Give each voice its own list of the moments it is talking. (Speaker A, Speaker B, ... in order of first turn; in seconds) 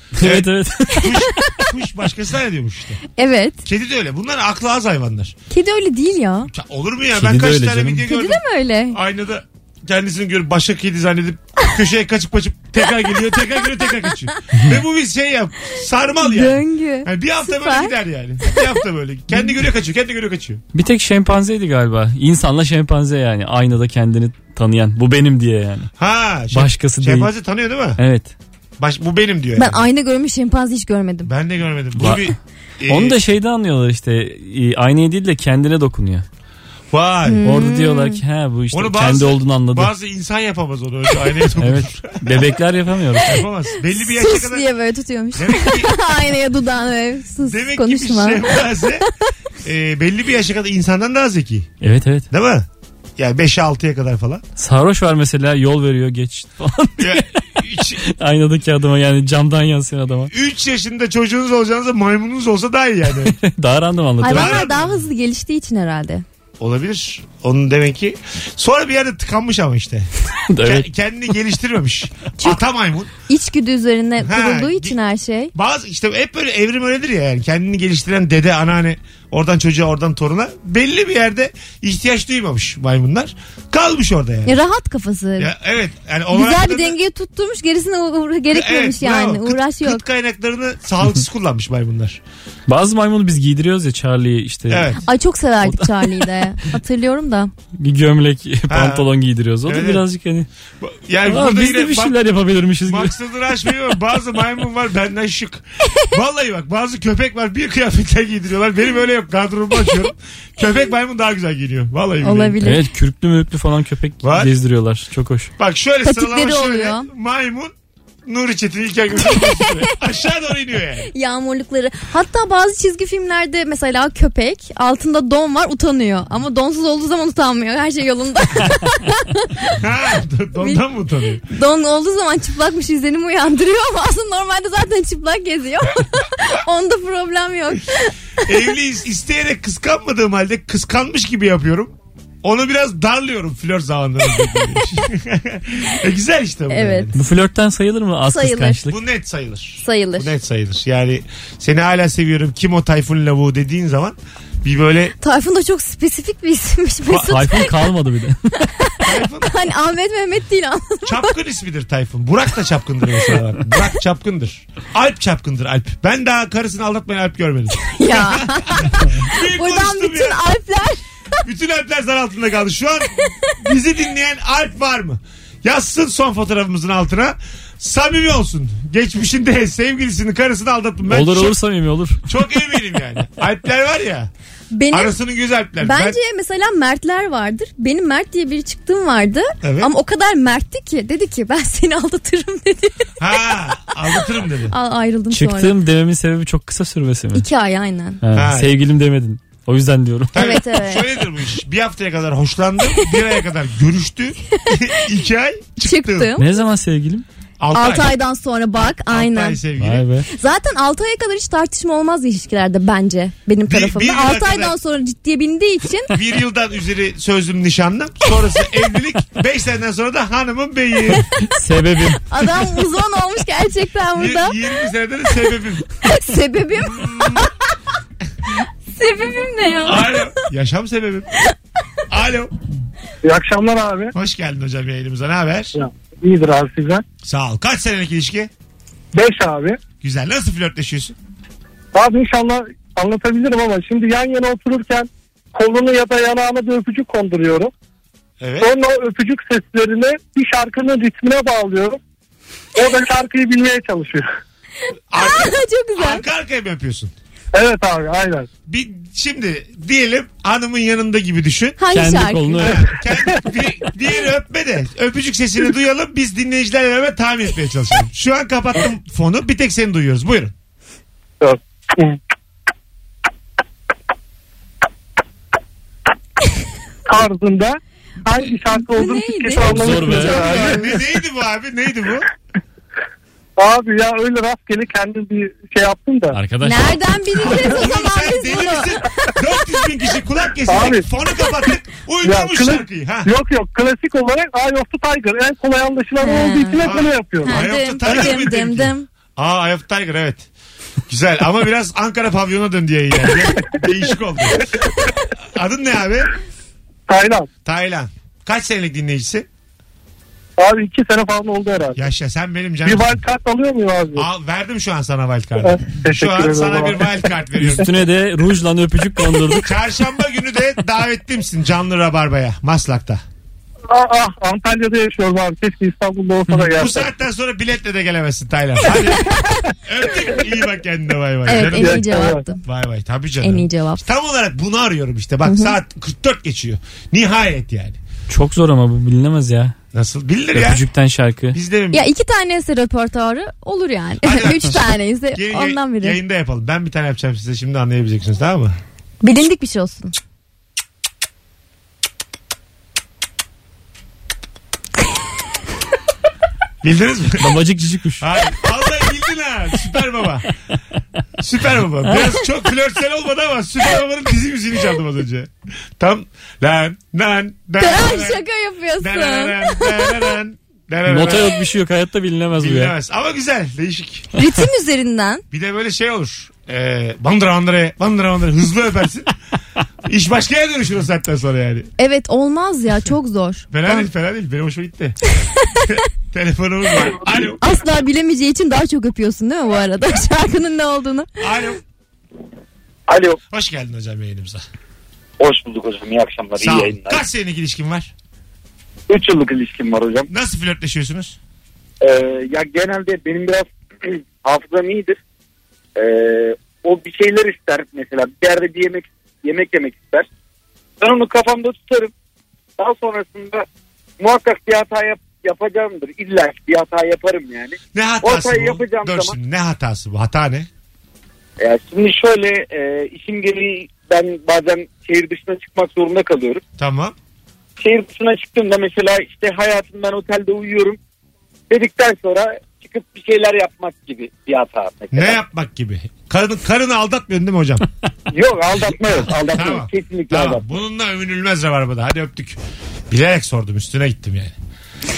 Speaker A: 0.2-1.1, 7.1-8.0, 20.7-25.9, 26.5-27.3, 28.0-28.3, 32.0-32.3, 32.9-36.2, 37.4-39.9, 41.6-43.4, 51.8-52.3, 54.6-60.3, 63.2-64.6, 70.5-70.9, 92.7-94.9, 95.6-96.3, 97.8-100.5, 101.3-103.1, 112.6-115.5, 147.1-148.9, 157.1-158.4, 181.1-182.2, 195.3-197.4, 198.2-200.5, 206.4-207.2, 209.8-210.3, 221.5-222.2, 261.9-262.9, 279.6-280.4, 286.3-287.0, 317.6-319.7, 338.3-339.7, 340.5-341.6, 357.4-358.2, 371.1-372.9
Speaker B: 0.2-3.0, 3.6-5.3, 6.5-20.6, 26.0-28.0, 28.8-29.8, 31.2-33.2, 36.9-37.5, 38.7-42.5, 43.2-44.7, 45.3-46.0, 47.4-49.1, 49.6-51.7, 52.3-54.4, 57.0-58.0, 60.3-63.4, 64.2-65.0, 66.6-70.1, 70.6-73.1, 74.2-75.0, 75.5-84.6, 85.4-87.0, 88.5-92.2, 94.7-95.0, 98.7-99.1, 99.6-100.0, 100.8-102.1, 102.8-112.6, 114.2-114.5, 115.6-117.7, 118.2-121.1, 129.8-131.4, 138.4-147.2, 148.9-155.1, 159.0-159.5, 161.0-170.4, 171.4-181.5, 182.2-184.3, 184.9-186.2, 189.6-189.9, 193.2-194.7, 198.3-198.8, 200.3-206.3, 207.6-208.1, 208.8-210.1, 213.7-214.7, 216.1-221.3, 224.1-225.9, 226.9-227.5, 229.8-231.3, 232.1-232.5, 234.1-235.7, 237.2-238.5, 240.0-241.2, 248.4-248.7, 255.1-257.1, 258.7-261.8, 262.6-270.5, 280.3-282.3, 287.4-293.3, 296.8-300.5, 301.1-306.3, 307.6-309.5, 311.9-313.2, 314.1-317.9, 319.6-323.2, 326.7-338.0, 339.9-340.8, 341.5-342.0, 344.2-348.8, 356.8-357.6, 358.2-360.5, 361.4-368.4, 369.0-371.6, 372.6-374.3, 375.5-379.3, 380.0-381.9, 383.7-385.2, 385.9-387.6, 391.4-391.8, 393.5-394.6, 396.6-398.1, 400.3-401.4, 417.9-420.7, 426.8-427.1, 435.1-437.9, 438.8-442.6, 443.1-444.5
Speaker C: 3.1-3.6, 5.5-6.5, 8.1-9.0, 16.2-18.6, 29.6-31.3, 37.2-38.2, 43.9-49.1, 64.2-66.2, 73.3-75.5, 84.5-85.5, 86.3-90.0, 95.0-97.5, 112.2-112.8, 116.0-117.1, 119.2-119.9, 121.1-129.8, 131.4-138.4, 146.7-147.1, 148.3-148.8, 149.8-150.3, 155.2-157.7, 158.8-161.3, 167.7-171.0, 184.7-185.1, 185.8-193.1, 194.7-195.7, 197.3-198.2, 200.3-201.1, 204.6-205.0, 205.8-206.4, 207.7-209.6, 210.3-216.1, 222.2-224.6, 226.0-227.5, 228.9-230.2, 255.2-256.2, 261.8-262.8, 278.7-280.9, 286.6-289.0, 296.2-299.1, 331.4-332.6, 333.4-334.0, 335.4-335.8, 341.9-346.2, 349.2-350.1, 367.8-370.2, 374.4-375.4, 382.0-384.1, 385.4-385.9, 387.6-391.3
Speaker D: 233.2-234.1, 235.7-237.0, 239.1-239.8, 241.9-247.7, 248.6-252.0, 252.8-254.2, 257.5-258.5, 271.4-272.2, 277.1-281.0, 283.6-286.4, 290.7-291.1, 292.2-298.4, 307.1-307.5, 310.6-312.0, 312.8-314.3, 315.6-317.3, 323.9-327.1, 331.6-332.4
Speaker E: 393.1-393.4, 395.4-397.2, 399.1-400.3, 402.0-405.2, 405.9-410.3, 411.0-412.1, 412.8-413.6, 414.2-419.3, 421.6-426.6, 427.8-431.0, 431.7-435.4, 438.3-440.7